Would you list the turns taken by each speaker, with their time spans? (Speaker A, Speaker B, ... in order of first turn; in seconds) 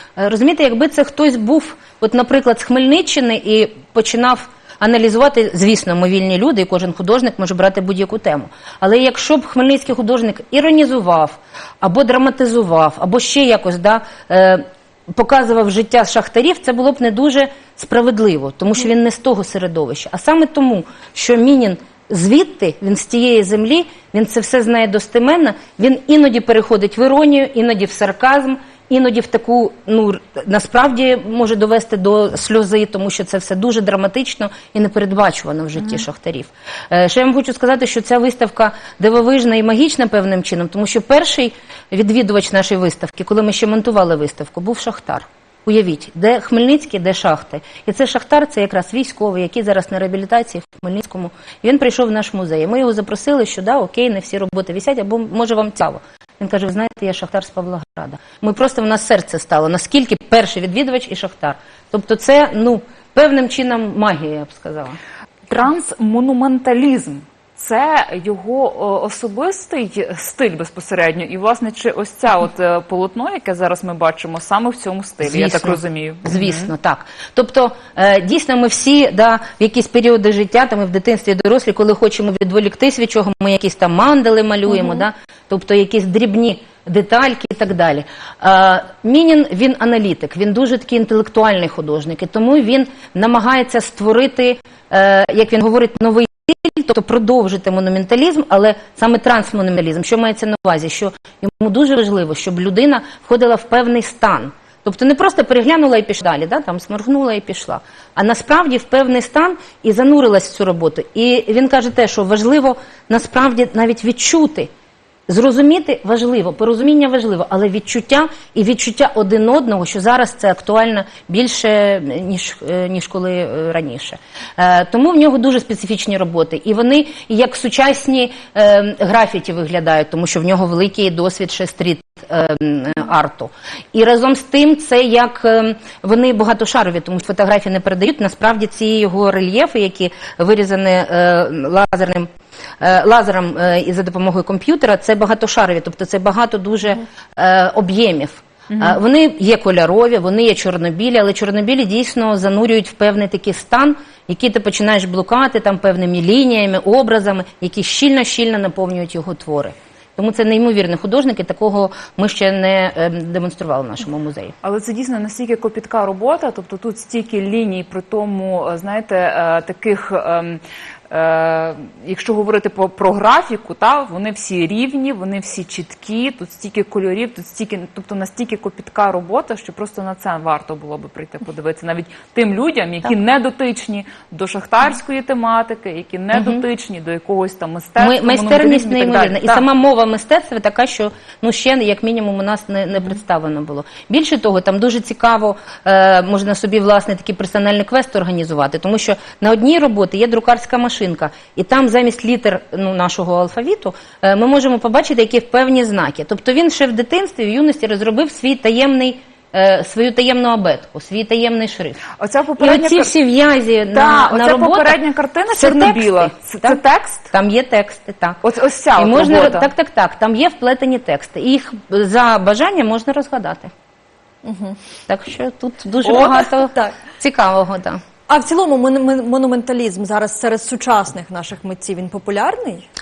Speaker A: 0.1-65.0, 75.2-114.7, 115.3-142.3, 142.8-164.5, 186.3-186.6, 188.0-212.0, 212.6-215.0, 215.5-216.8, 217.3-218.4, 218.9-223.7, 225.1-228.0
Speaker B: 65.5-76.7, 148.7-149.0, 164.6-189.6, 212.2-213.1, 213.9-217.3, 218.4-219.7
Speaker C: 224.4-224.8, 226.0-226.9, 228.3-232.8